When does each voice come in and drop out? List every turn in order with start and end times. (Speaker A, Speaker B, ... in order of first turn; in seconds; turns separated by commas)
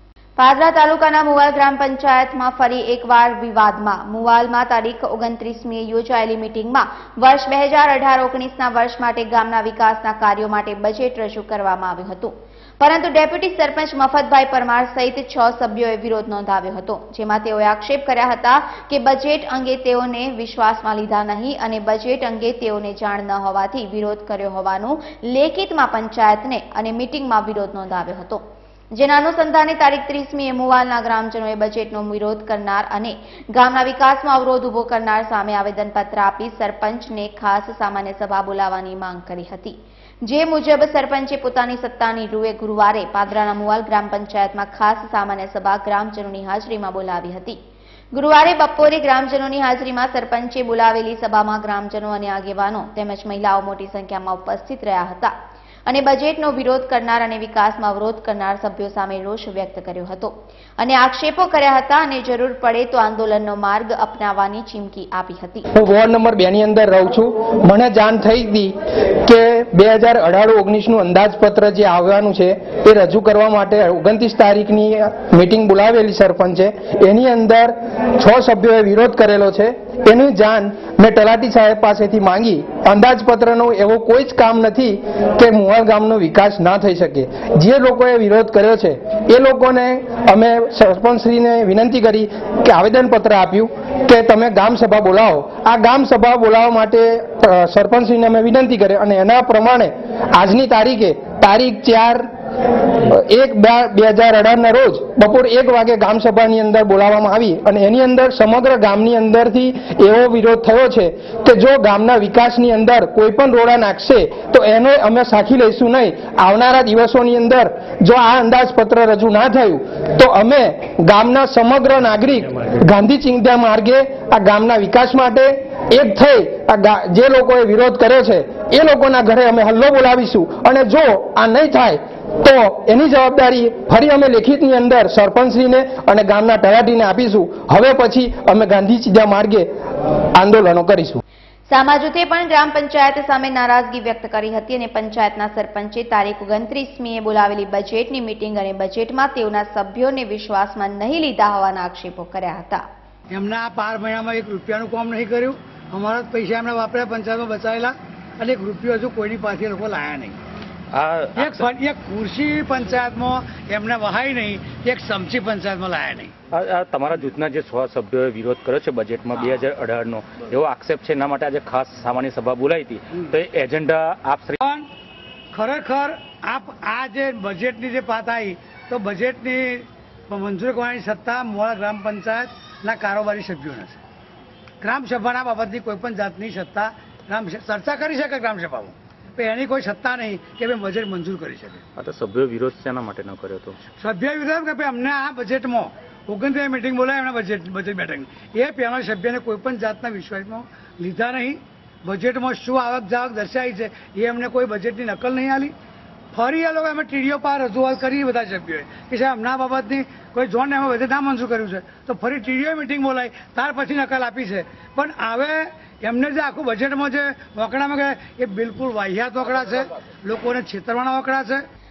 Speaker A: 0.4-28.4, Speaker A: 28.9-47.6, Speaker A: 48.1-55.3, Speaker A: 55.9-65.7, Speaker B: 65.7-102.3, Speaker B: 102.9-139.7, Speaker B: 140.3-141.2, Speaker A: 141.7-152.8, Speaker C: 153.3-160.4, Speaker D: 160.9-161.6, Speaker C: 161.4-166.3, Speaker D: 166.5-174.6, Speaker C: 174.6-174.9, Speaker C: 175.5-184.0, Speaker C: 184.8-191.8, Speaker D: 192.0-193.8, Speaker C: 194.0-205.7, Speaker C: 206.3-221.6